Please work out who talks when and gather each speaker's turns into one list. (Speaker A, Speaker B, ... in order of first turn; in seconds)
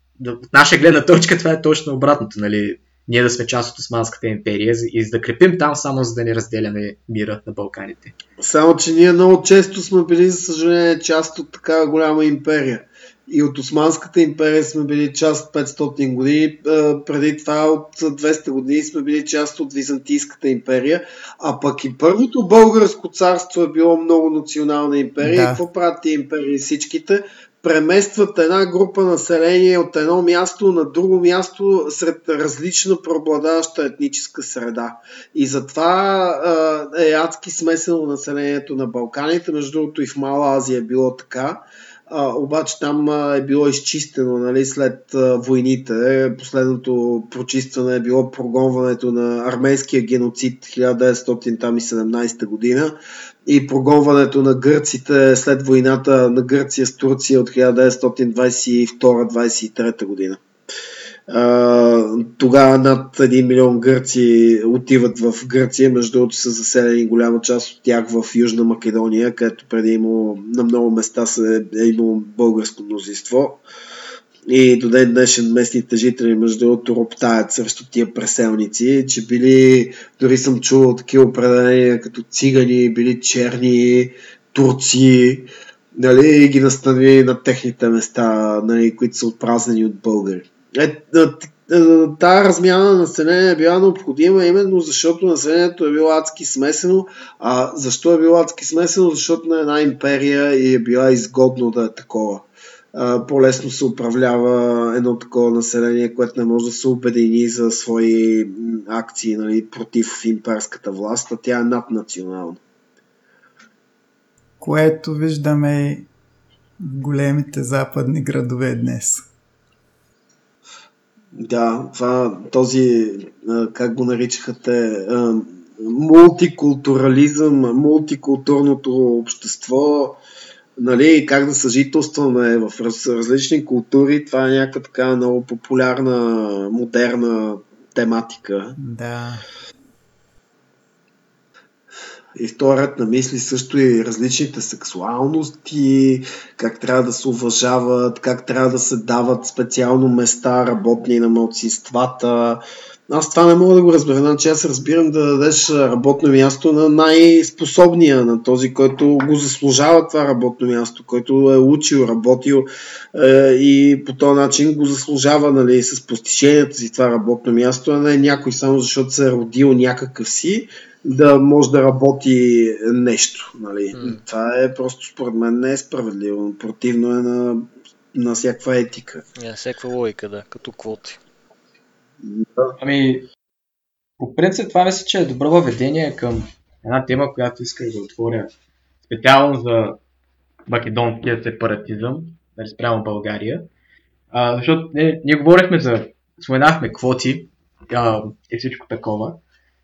Speaker A: 0.2-8.1, 182.8-183.3, 184.2-188.5, 189.1-190.0, 190.7-193.7, 194.3-199.4
Speaker B: 8.4-60.4, 61.3-73.6, 74.5-112.6, 121.3-130.2, 130.8-138.8, 142.3-179.2, 182.2-182.7
Speaker C: 25.2-25.6, 114.6-116.1, 116.8-119.3, 138.8-139.4
Speaker D: 173.9-174.2, 179.4-181.2